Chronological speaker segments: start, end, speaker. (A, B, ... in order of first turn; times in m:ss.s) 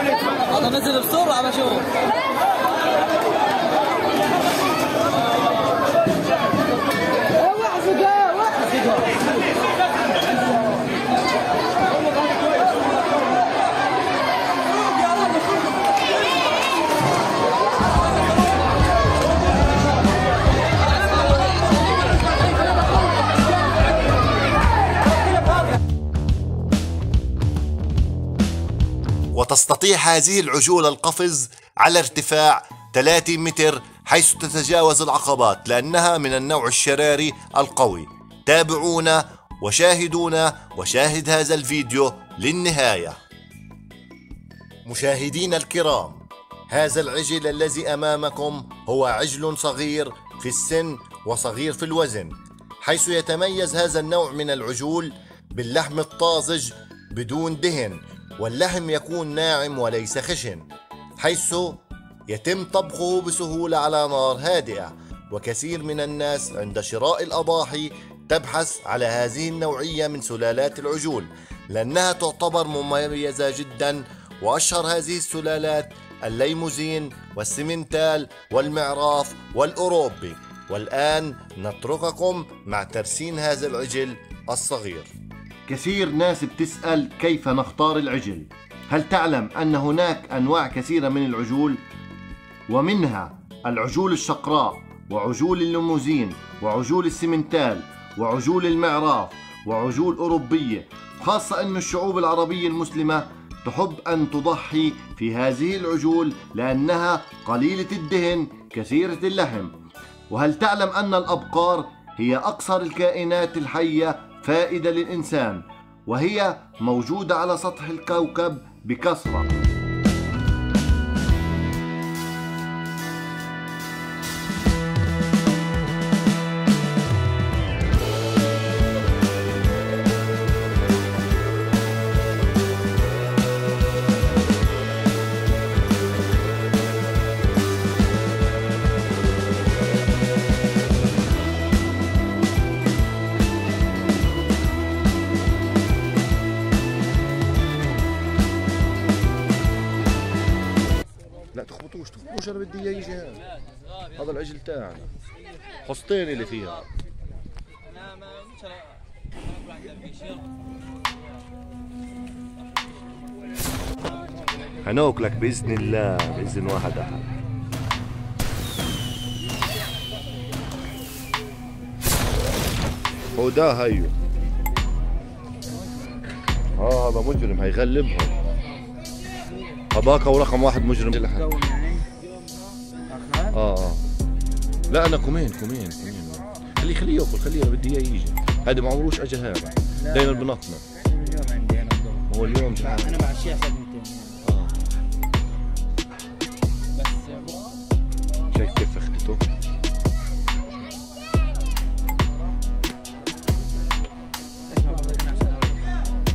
0:29.3-0:43.2 A
0:44.9-1:00.6 A
1:01.2-1:25.1 A
1:25.7-1:31.8 A
1:32.7-1:49.7 A
1:50.3-1:59.5 A
2:31.5-2:33.4 A
2:34.2-2:35.1 A
2:35.9-2:36.8 A
2:44.8-2:47.2 A
2:53.4-2:54.1 A
2:56.8-2:58.3 A
2:59.9-3:01.5 A
3:01.2-3:02.1 B
3:03.1-3:03.6 B
3:03.5-3:04.0 A
3:04.9-3:10.8 A
3:10.1-3:10.4 B
3:11.0-3:14.4 B
3:12.3-3:13.2 A
3:14.4-3:14.7 A
3:17.1-3:17.5 B
3:18.5-3:19.4 A
3:24.7-3:25.6 B